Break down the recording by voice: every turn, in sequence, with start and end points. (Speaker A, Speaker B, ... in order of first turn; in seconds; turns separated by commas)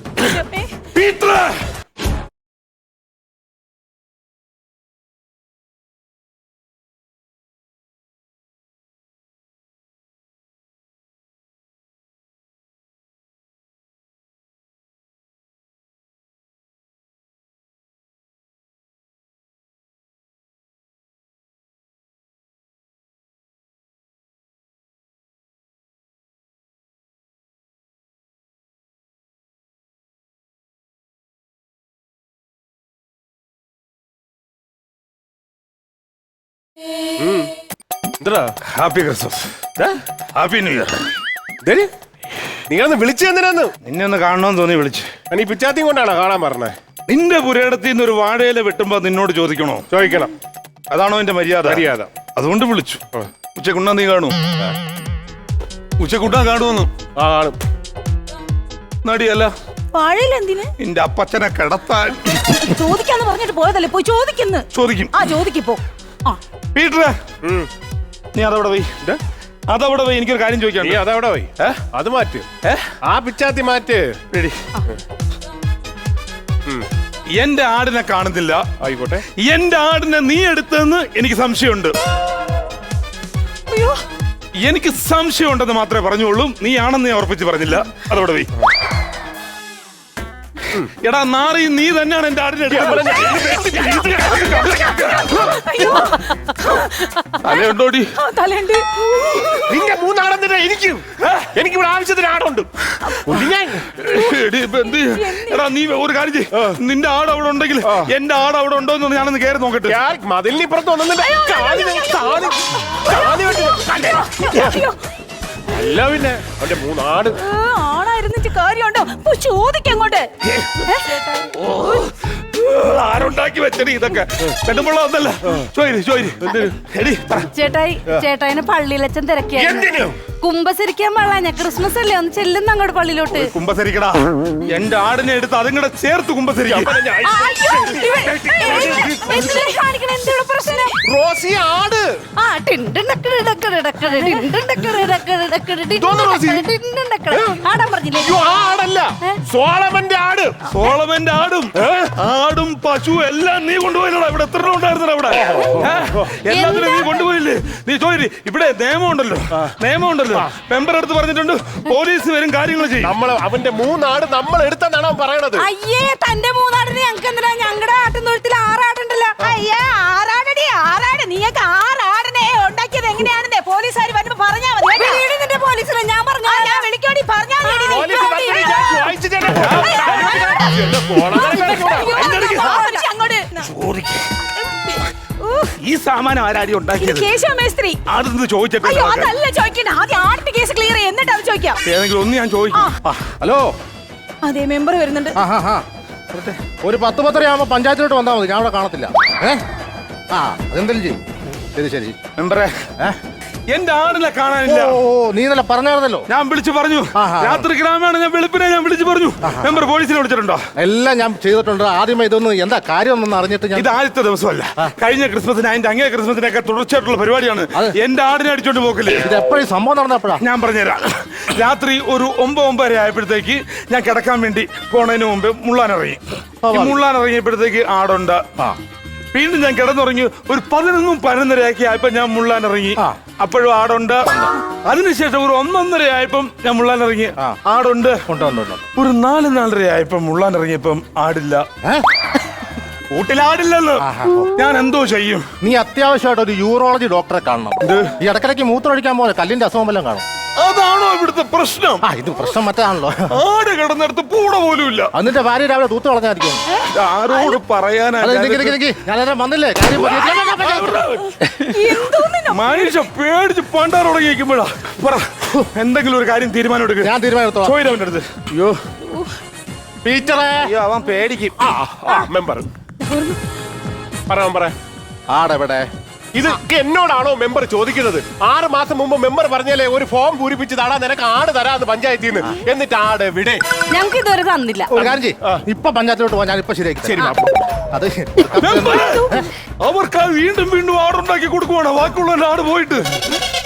Speaker A: 0.2-0.7, Speaker B: 0.9-1.6, Speaker C: 37.2-37.5, Speaker C: 38.2-38.5, Speaker B: 38.7-39.5, Speaker B: 40.3-40.9, Speaker C: 41.6-41.9, Speaker C: 42.7-43.7, Speaker B: 43.8-45.1, Speaker C: 45.3-46.7, Speaker B: 47.1-49.9, Speaker C: 49.9-50.3, Speaker B: 50.9-53.0, Speaker C: 51.6-52.1, Speaker B: 53.5-54.3, Speaker B: 56.0-56.9, Speaker C: 57.2-57.6, Speaker B: 59.0-59.5, Speaker A: 59.9-60.7, Speaker B: 60.8-62.7, Speaker A: 62.6-66.4, Speaker B: 64.7-65.2, Speaker B: 66.7-67.2, Speaker C: 67.4-67.7, Speaker B: 68.3-68.9, Speaker B: 69.7-71.0, Speaker C: 70.8-72.5, Speaker B: 72.6-72.9, Speaker C: 73.0-74.4, Speaker B: 77.4-78.7, Speaker C: 78.8-79.2, Speaker B: 79.4-81.9, Speaker A: 83.7-84.0, Speaker B: 84.6-88.5, Speaker B: 91.0-95.6, Speaker C: 92.7-94.9, Speaker A: 95.3-99.8, Speaker B: 97.4-98.1, Speaker C: 99.7-102.7, Speaker B: 101.2-101.5, Speaker C: 103.2-103.9, Speaker B: 103.9-110.0, Speaker A: 105.1-105.6, Speaker C: 109.9-114.8, Speaker A: 111.2-115.0, Speaker C: 115.7-117.4, Speaker A: 117.4-120.3, Speaker B: 120.4-120.9, Speaker A: 120.8-121.5, Speaker B: 121.5-127.5, Speaker C: 126.5-126.7, Speaker D: 127.5-133.5, Speaker C: 129.5-130.3, Speaker B: 133.3-137.0, Speaker C: 136.7-139.7, Speaker D: 137.2-140.9, Speaker A: 137.9-139.7, Speaker C: 141.0-142.1, Speaker D: 142.4-148.4, Speaker C: 145.9-146.7, Speaker C: 147.3-147.6, Speaker C: 148.2-150.5, Speaker B: 150.7-163.1, Speaker D: 156.5-157.2, Speaker C: 163.0-165.7, Speaker A: 165.6-166.5, Speaker D: 165.8-169.8, Speaker A: 167.4-167.9, Speaker A: 169.4-175.2, Speaker D: 174.9-176.9, Speaker A: 176.4-179.0, Speaker C: 177.6-182.4, Speaker D: 178.4-178.8, Speaker B: 179.5-180.5, Speaker A: 179.6-183.7, Speaker D: 181.4-181.9, Speaker B: 182.0-182.9, Speaker D: 182.5-183.0, Speaker B: 183.6-184.3, Speaker A: 185.4-185.7, Speaker B: 185.8-187.3, Speaker A: 187.0-188.0, Speaker B: 188.1-189.3, Speaker A: 188.8-191.8, Speaker B: 191.8-192.9, Speaker E: 193.1-193.7, Speaker A: 194.4-195.4, Speaker E: 195.3-199.6, Speaker E: 200.3-201.2, Speaker E: 201.7-202.2, Speaker B: 202.3-202.7, Speaker B: 203.7-205.0, Speaker E: 204.7-206.3, Speaker B: 206.3-210.6, Speaker E: 207.1-207.7, Speaker E: 209.4-209.7, Speaker E: 210.8-213.9, Speaker B: 213.7-219.3, Speaker E: 219.1-220.4, Speaker B: 220.4-228.4, Speaker E: 226.6-227.0, Speaker B: 229.3-238.2, Speaker E: 238.3-238.8, Speaker B: 238.9-241.7, Speaker B: 243.1-245.5, Speaker E: 244.0-244.5, Speaker E: 245.6-250.2, Speaker B: 247.8-248.2, Speaker B: 250.6-252.0, Speaker E: 252.0-253.3, Speaker B: 253.3-255.1, Speaker E: 255.1-256.6, Speaker B: 256.9-258.8, Speaker E: 258.2-261.0, Speaker B: 259.9-268.8, Speaker A: 261.7-262.9, Speaker E: 267.0-267.7, Speaker E: 270.0-270.7, Speaker B: 270.6-272.2, Speaker C: 271.6-272.7, Speaker C: 274.3-274.8, Speaker E: 275.3-275.9, Speaker C: 276.3-283.6, Speaker D: 283.9-285.1, Speaker E: 284.9-287.4, Speaker C: 285.0-285.6, Speaker C: 287.1-287.5, Speaker E: 287.9-289.4, Speaker B: 288.6-293.2